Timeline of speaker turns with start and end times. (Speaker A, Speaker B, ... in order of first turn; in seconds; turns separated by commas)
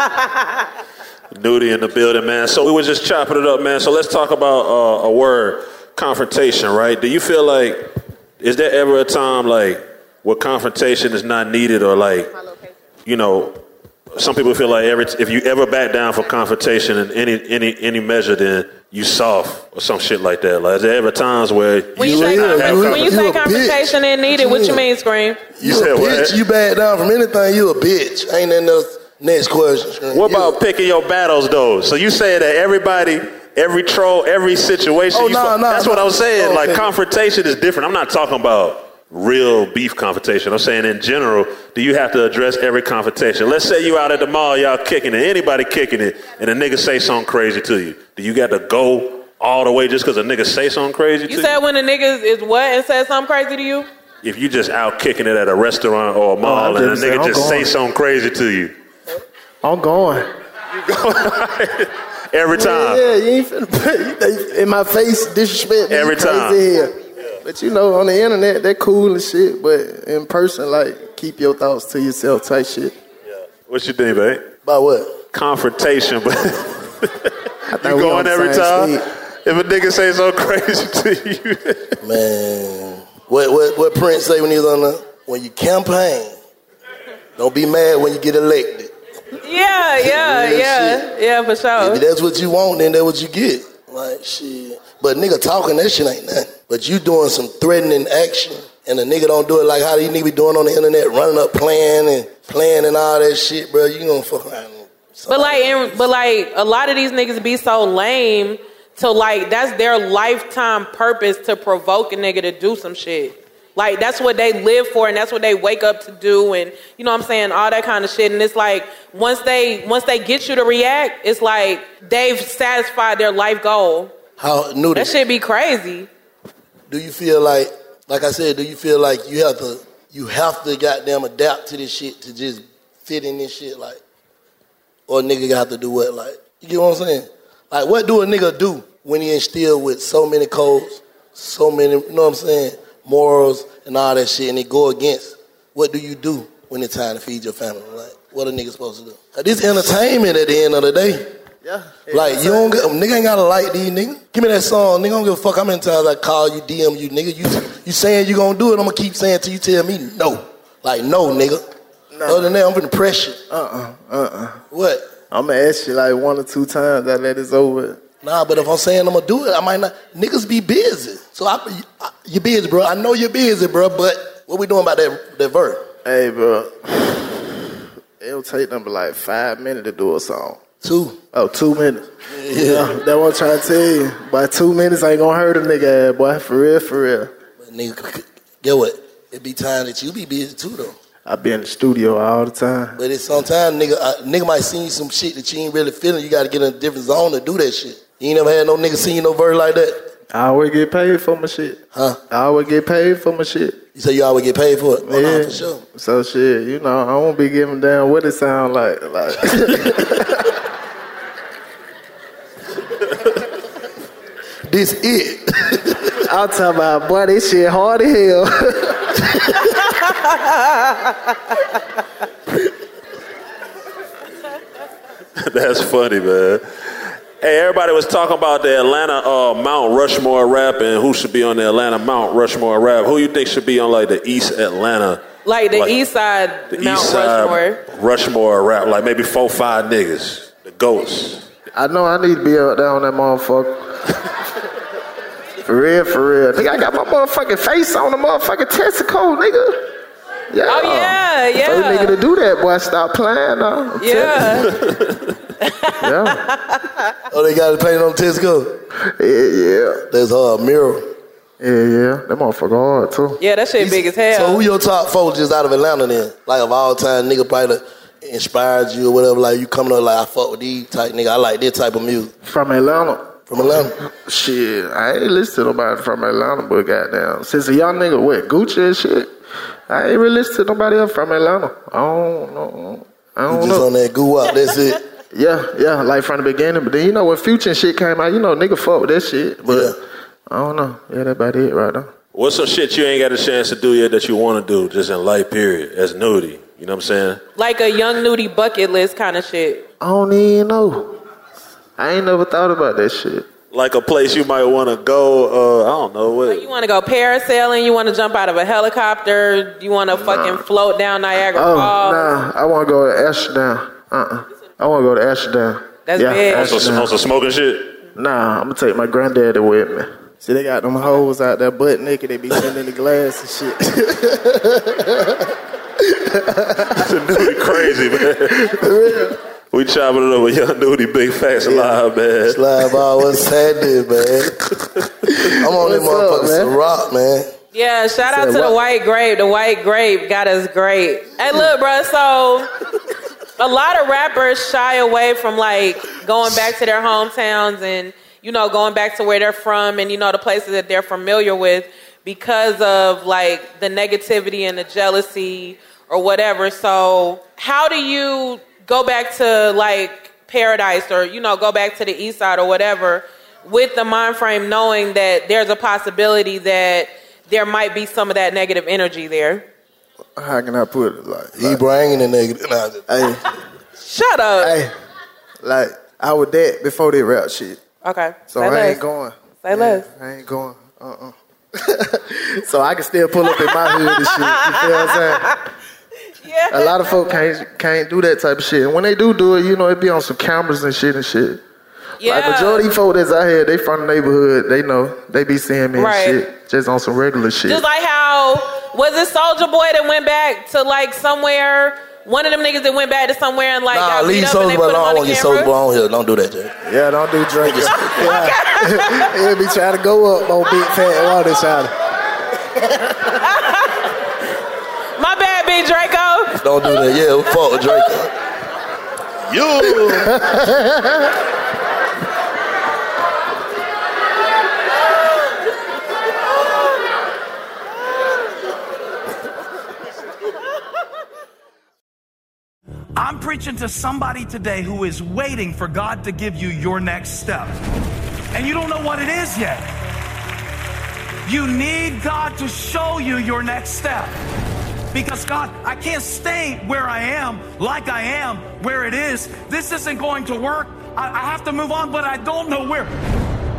Speaker A: 1.3-7.9, Speaker A: 8.4-12.3, Speaker A: 13.1-13.6, Speaker A: 14.2-23.1, Speaker B: 22.0-25.5, Speaker C: 22.0-24.8, Speaker C: 25.6-30.6, Speaker A: 25.6-26.4, Speaker A: 30.1-51.5, Speaker C: 35.1-36.9, Speaker B: 51.3-53.9, Speaker A: 54.2-58.7, Speaker D: 56.4-57.7, Speaker D: 59.6-60.3, Speaker A: 60.8-63.0, Speaker D: 62.5-66.9, Speaker A: 65.9-66.6, Speaker D: 67.4-72.9, Speaker A: 73.7-74.5, Speaker C: 74.7-75.2, Speaker A: 75.3-82.0, Speaker D: 77.7-79.0, Speaker C: 82.0-86.3, Speaker C: 87.4-88.9, Speaker B: 89.4-92.0, Speaker C: 90.0-91.0, Speaker C: 91.8-106.0, Speaker B: 105.3-124.1, Speaker C: 124.4-125.1, Speaker B: 125.0-126.1, Speaker C: 126.9-134.0, Speaker C: 135.1-151.3, Speaker D: 151.6-152.8, Speaker C: 152.1-161.6, Speaker D: 162.1-162.5, Speaker C: 162.3-163.4, Speaker D: 163.5-164.6, Speaker C: 164.7-165.1, Speaker D: 165.3-168.0, Speaker C: 168.2-175.9, Speaker D: 176.1-177.7, Speaker D: 178.2-180.6, Speaker C: 180.8-181.2, Speaker D: 181.3-187.3, Speaker C: 182.3-182.9, Speaker C: 187.6-191.0, Speaker D: 191.3-193.0, Speaker C: 193.0-200.1, Speaker D: 200.3-203.8, Speaker C: 201.9-202.2, Speaker C: 203.9-205.8, Speaker D: 205.1-210.4, Speaker C: 214.7-216.1, Speaker D: 216.3-219.2, Speaker A: 225.4-235.9, Speaker B: 235.4-237.8, Speaker A: 236.7-241.5, Speaker D: 241.7-244.0, Speaker D: 245.6-249.8, Speaker D: 250.5-254.6, Speaker B: 250.7-252.2, Speaker B: 254.0-254.7, Speaker B: 255.9-256.8, Speaker D: 256.0-256.4, Speaker C: 257.3-258.8, Speaker D: 259.1-260.0, Speaker C: 260.1-261.1, Speaker D: 261.6-263.4, Speaker B: 263.4-264.6, Speaker C: 263.8-272.3, Speaker D: 272.4-273.4, Speaker C: 273.5-273.9, Speaker D: 274.2-279.3, Speaker D: 279.9-283.9, Speaker C: 283.5-285.0, Speaker D: 285.3-290.0, Speaker C: 289.7-290.0, Speaker D: 290.5-292.1, Speaker A: 292.3-297.4, Speaker B: 297.6-299.9, Speaker D: 300.0-301.2, Speaker D: 302.0-303.5, Speaker A: 303.7-306.7, Speaker B: 306.5-312.3, Speaker D: 310.2-310.6, Speaker D: 311.5-317.1, Speaker B: 316.1-316.9, Speaker A: 316.5-318.0, Speaker D: 318.2-325.2, Speaker D: 326.1-327.1, Speaker A: 327.0-328.8, Speaker D: 328.7-329.3, Speaker A: 329.7-332.6, Speaker C: 332.5-334.5, Speaker D: 335.5-336.7, Speaker C: 335.5-337.5, Speaker B: 337.7-342.7, Speaker D: 338.3-338.7, Speaker B: 343.6-369.7, Speaker D: 370.4-371.8, Speaker C: 371.6-373.1, Speaker D: 373.1-373.5, Speaker B: 374.0-374.8, Speaker D: 374.6-374.9, Speaker D: 375.6-377.8, Speaker B: 378.0-379.0, Speaker D: 378.5-385.5, Speaker B: 379.6-380.1, Speaker B: 383.6-385.3, Speaker B: 386.4-387.2, Speaker D: 386.7-391.6, Speaker B: 392.2-392.8, Speaker D: 392.2-397.8, Speaker B: 396.0-396.4, Speaker B: 397.7-405.7, Speaker C: 403.9-406.7, Speaker D: 406.9-411.9, Speaker C: 407.6-408.4, Speaker B: 408.0-409.3, Speaker B: 415.2-417.0, Speaker C: 416.6-418.3, Speaker C: 419.5-420.4, Speaker D: 420.0-421.0, Speaker E: 433.2-437.8, Speaker E: 438.5-439.9, Speaker E: 441.4-444.4, Speaker E: 445.1-453.1